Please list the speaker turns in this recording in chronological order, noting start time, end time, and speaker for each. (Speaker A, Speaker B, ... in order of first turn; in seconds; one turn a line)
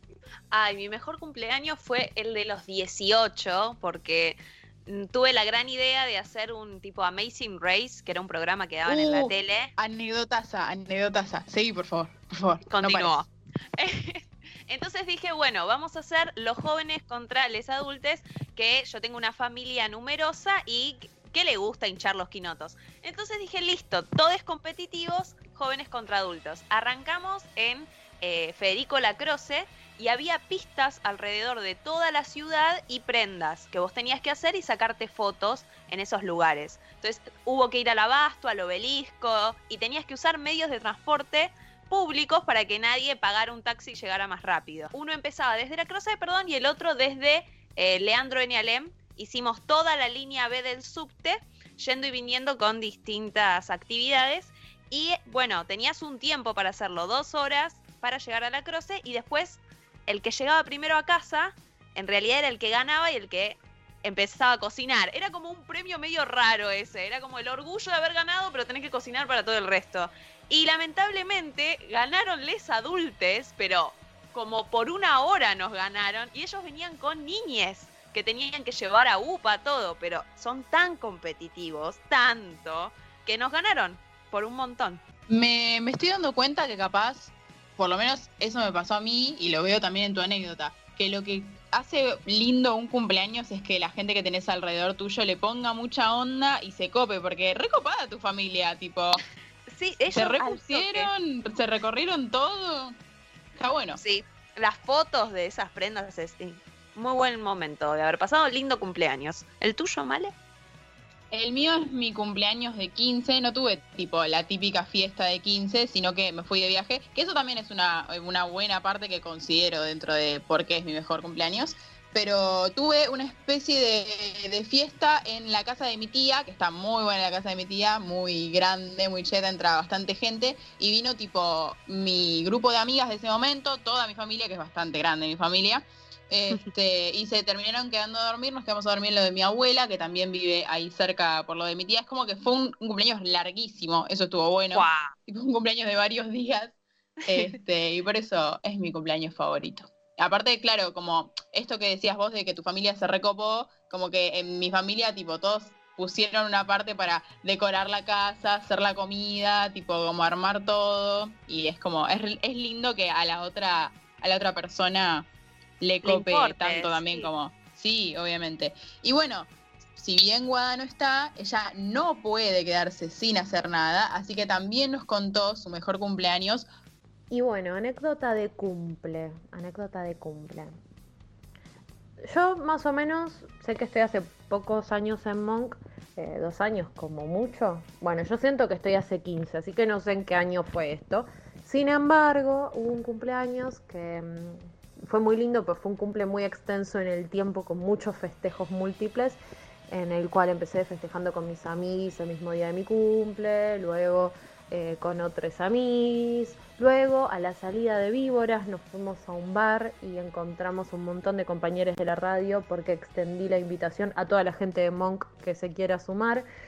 Speaker A: 0.5-9.7
Speaker B: 8.9-13.1
Speaker A: 12.7-85.0
Speaker B: 85.3-99.2
Speaker A: 99.7-101.1
Speaker B: 100.1-103.0
Speaker B: 103.6-104.0
Speaker A: 104.0-110.3
Speaker B: 111.3-146.8
Speaker A: 144.7-145.1
Speaker B: 147.3-165.3
Speaker B: 165.8-176.7
Speaker A: 166.0-167.3
Speaker C: 177.3-180.8
Speaker C: 182.2-199.4
Speaker C: 199.9-216.5